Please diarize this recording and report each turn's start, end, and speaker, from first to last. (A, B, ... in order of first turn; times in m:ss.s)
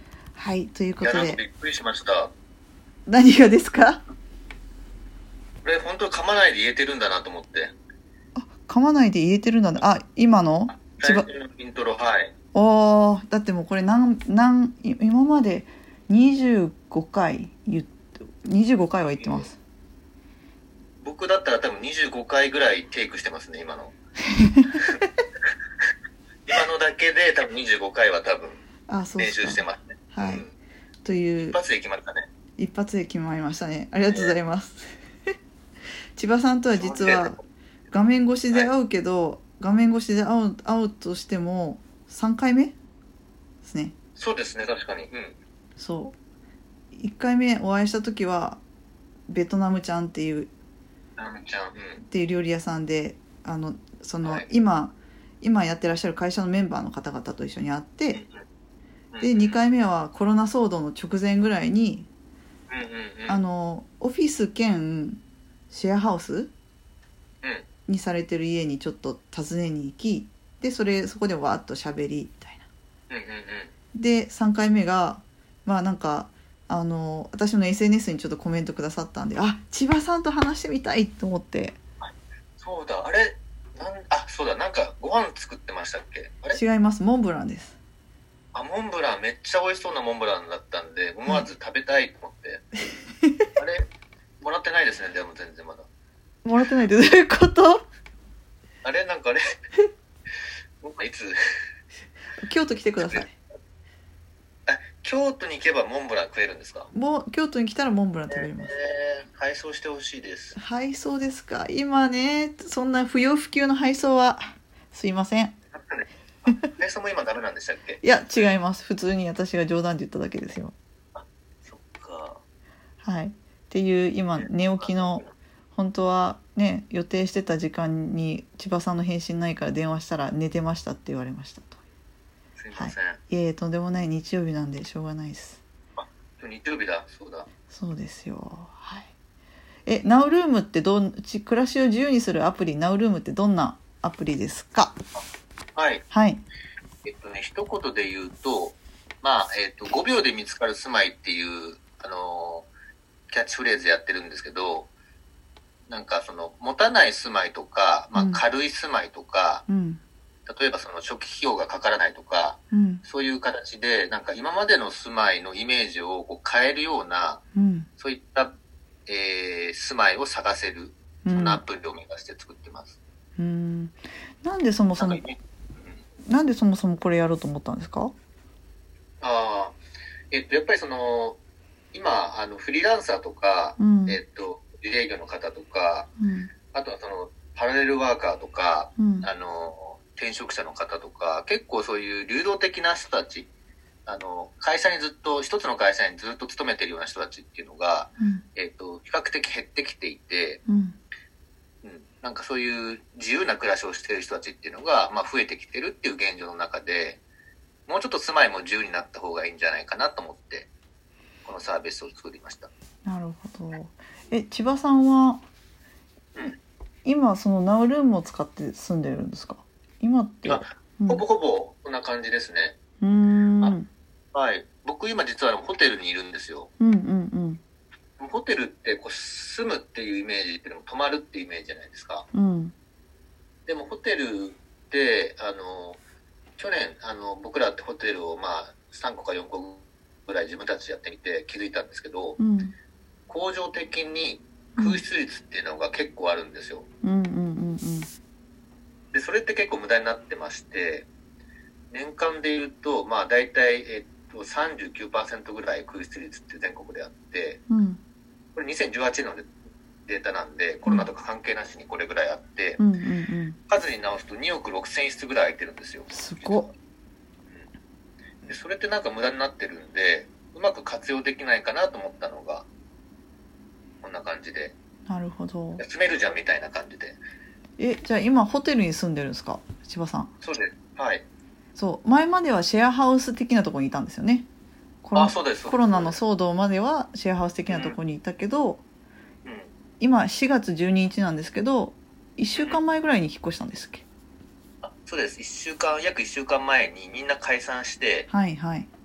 0:00.4-0:01.4 A
0:01.0-0:02.3 B
0:03.1-0:04.0 A
0:05.6-0:07.7 B
0:08.4-0:11.3 A
0:10.7-0:12.3 B
0:12.5-0:19.6 A
0:19.1-0:19.5 B
0:21.0-0:23.9 B
0:24.5-0:24.9 A
0:26.5-0:28.6 B
0:28.9-0:30.5 A
0:29.2-0:30.5 B
0:31.0-0:31.6 A
0:31.4-0:32.3 B
0:32.6-0:34.9 A
0:36.2-0:37.4 A
0:36.7-0:37.4 B
0:37.9-0:42.8 A
0:43.6-0:44.0 A
0:44.2-0:45.4 B
0:45.8-0:46.2 A
0:46.9-0:48.6 A
0:49.3-0:50.5 A
0:51.2-0:52.0 B
0:52.0-0:58.2 A
0:58.1-0:58.4 B
0:59.1-0:59.6 B
0:59.2-1:02.1 A
1:02.7-1:03.4 B
1:03.3-1:06.5 A
1:07.9-1:12.7 A
1:13.1-1:13.7 B
1:13.9-1:21.8 A
1:22.0-1:26.6 B
1:26.5-1:27.8 A
1:28.5-1:32.7 B
1:33.6-1:33.8 B
1:34.4-1:35.9 B
1:36.4-1:37.8 A
1:38.8-1:39.4 B
1:40.8-1:41.4 B
1:42.4-1:43.4 A
1:43.0-1:43.3 B
1:44.7-1:46.9 B
1:46.9-1:48.7 A
1:48.3-1:50.6 B
1:50.6-1:55.6 A
1:55.8-1:58.5 B
1:58.0-2:00.7 A
2:01.2-2:02.4 B
2:03.0-2:05.2 A
2:04.4-2:05.3 B
2:05.8-2:11.8 A
2:12.6-2:13.2 B
2:12.8-2:15.6 A
2:16.0-2:17.5 B
2:17.7-2:19.1 A
2:19.9-2:25.0 A
2:25.8-2:26.0 B
2:26.1-2:26.4 A
2:27.0-2:32.7 B
2:33.3-2:34.9 B
2:35.9-2:39.7 B
2:38.1-2:38.4 A
2:39.7-2:40.0 A
2:40.5-2:47.4 B
2:42.7-2:43.0 A
2:47.5-2:47.9 A
2:48.0-2:48.6 B
2:49.1-2:53.0 B
2:51.2-2:51.6 A
2:53.4-2:55.2 A
2:55.0-2:56.0 B
2:56.2-2:58.1 A
2:59.2-2:59.8 B
3:00.3-3:01.4 B
3:01.9-3:06.1 B
3:03.8-3:04.2 A
3:06.2-3:06.5 A
3:06.7-3:13.5 B
3:09.0-3:09.3 A
3:14.1-3:20.6 B
3:20.7-3:21.0 A
3:21.8-3:27.2 B
3:27.9-3:30.7 B
3:31.5-3:32.7 B
3:33.0-3:35.4 A
3:37.0-3:41.2 A
3:40.4-3:42.8 B
3:43.0-3:43.9 A
3:44.3-3:46.7 B
3:46.8-3:47.6 A
3:48.2-3:52.3 B
3:52.3-3:52.7 A
3:53.7-3:56.0 B
3:56.6-4:02.4 B
4:02.4-4:02.7 A
4:03.3-4:06.9 B
4:04.8-4:05.0 A
4:07.0-4:08.1 A
4:09.1-4:11.1 B
4:11.9-4:17.6 B
4:17.7-4:18.0 A
4:18.6-4:19.5 B
4:20.1-4:22.8 B
4:22.8-4:23.6 A
4:23.7-4:26.7 B
4:26.1-4:26.7 A
4:28.5-4:32.7 B
4:34.0-4:34.8 B
4:35.1-4:35.8 A
4:35.8-4:37.2 B
4:37.8-4:40.3 A
4:40.4-4:41.2 B
4:41.8-4:44.5 A
4:45.0-4:48.8 A
4:45.1-4:46.2 B
4:47.7-4:48.0 B
4:49.4-4:49.7 B
4:50.0-4:54.0 A
4:52.6-4:52.8 B
4:54.8-4:58.3 B
4:58.3-4:58.9 A